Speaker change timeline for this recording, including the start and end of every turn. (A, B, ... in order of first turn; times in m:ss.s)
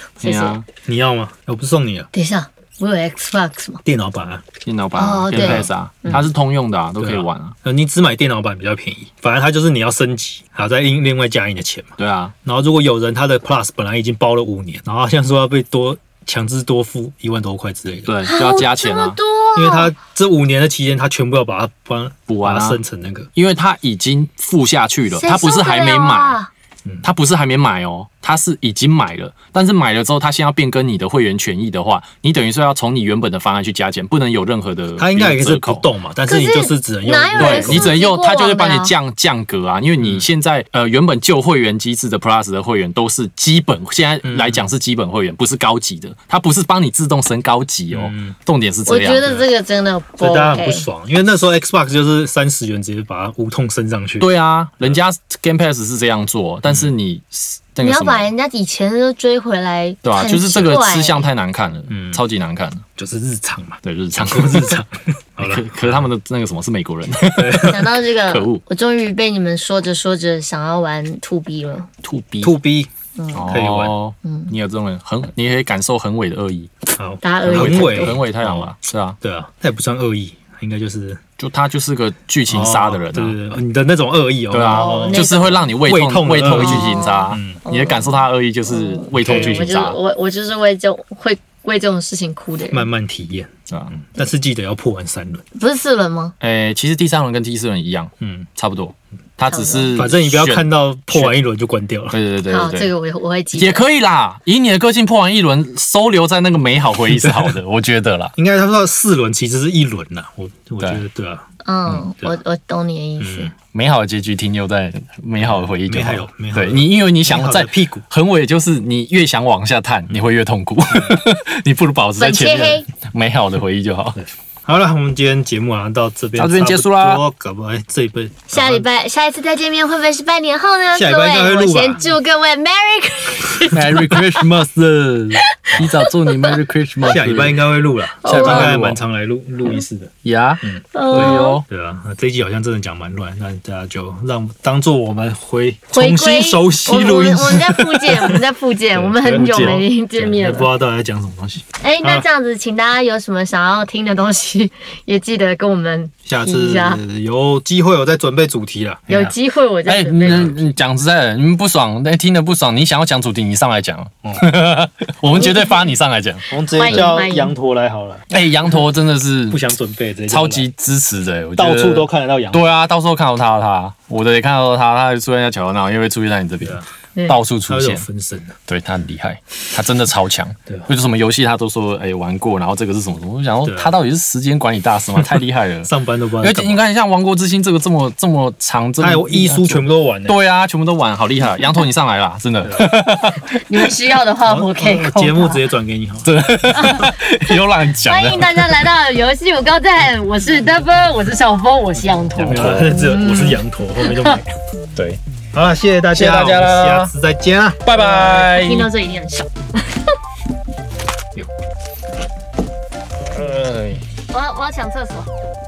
0:00.2-0:00.6 A
0:00.2-0:00.7 B
0:00.8-0:02.1 C
0:02.1-0:03.8 A
0:03.8-0:04.4 C
0:04.6-0:07.6 B
0:05.0-0:06.2 A
0:05.4-0:06.3 C
0:07.0-0:18.2 C
0:12.0-0:12.3 B
0:18.1-0:19.2 B
0:18.3-0:20.0 A
0:19.6-0:23.3 C
0:22.3-0:22.8 B
0:23.4-0:26.4 B
0:25.2-0:26.5 A
0:27.0-0:35.8 B
0:35.0-0:38.0 C
0:36.3-0:38.9 A
0:37.4-0:49.3 B
0:40.0-0:40.2 C
0:44.2-0:44.7 C
0:47.9-0:48.4 C
0:48.9-0:50.9 A
0:50.2-0:54.3 C
0:54.2-0:58.3 B
0:57.8-1:01.3 A
1:00.0-1:02.8 B
1:01.9-1:02.2 C
1:03.0-1:06.1 C
1:03.8-1:04.8 B
1:05.4-1:08.6 B
1:07.3-1:07.9 C
1:07.6-1:11.9 A
1:12.0-1:12.5 B
1:12.4-1:12.9 C
1:13.2-1:13.6 A
1:13.3-1:16.7 B
1:13.5-1:14.0 C
1:14.2-1:14.5 A
1:17.0-1:21.2 C
1:17.2-1:18.2 A
1:17.4-1:19.2 B
1:21.4-1:23.4 B
1:22.5-1:25.3 C
1:24.5-1:30.0 B
1:24.6-1:25.7 A
1:25.8-1:27.6 C
1:26.5-1:32.9 A
1:29.1-1:29.8 C
1:32.7-1:35.4 C
1:35.6-1:36.3 A
1:36.4-1:41.3 B
1:38.2-1:38.5 C
1:39.5-1:39.9 A
1:39.9-1:42.2 C
1:42.1-1:42.9 B
1:42.5-1:43.8 A
1:43.5-1:48.3 B
1:48.4-1:52.4 C
1:51.6-1:53.5 A
1:53.2-1:53.5 C
1:53.7-2:04.2 B
1:55.5-1:58.0 C
2:00.9-2:01.2 C
2:02.2-2:02.9 A
2:04.6-2:08.8 C
2:06.4-2:07.2 B
2:08.5-2:14.1 A
2:10.9-2:12.0 C
2:13.7-2:14.6 B
2:13.8-2:16.0 C
2:15.5-2:16.5 A
2:15.7-2:19.0 B
2:17.0-2:20.1 C
2:18.2-2:18.7 A
2:20.2-2:21.6 B
2:20.6-2:32.3 C
2:20.9-2:21.6 A
2:25.9-2:30.7 A
2:29.4-2:29.8 B
2:31.8-2:37.0 A
2:36.2-2:39.3 C
2:39.1-2:40.6 A
2:39.9-2:47.1 B
2:40.3-2:40.6 C
2:45.4-2:45.7 A
2:46.5-2:48.3 C
2:46.7-2:47.5 A
2:48.3-2:49.6 B
2:49.5-2:50.7 C
2:50.3-2:58.0 B
2:51.6-2:52.7 C
2:57.6-2:58.6 C
2:58.7-3:13.6 B
3:03.6-3:04.0 C
3:05.8-3:06.8 C
3:09.0-3:10.4 C
3:12.6-3:12.9 C
3:13.6-3:15.6 A
3:14.4-3:16.3 C
3:16.2-3:18.9 B
3:16.8-3:17.1 A
3:18.0-3:24.4 A
3:22.4-3:24.6 C
3:22.4-3:22.9 B
3:25.0-3:25.2 B
3:25.5-3:27.8 C
3:26.1-3:27.1 B
3:27.8-3:28.9 B
3:27.9-3:30.0 A
3:33.3-3:34.0 B
3:34.3-3:35.3 A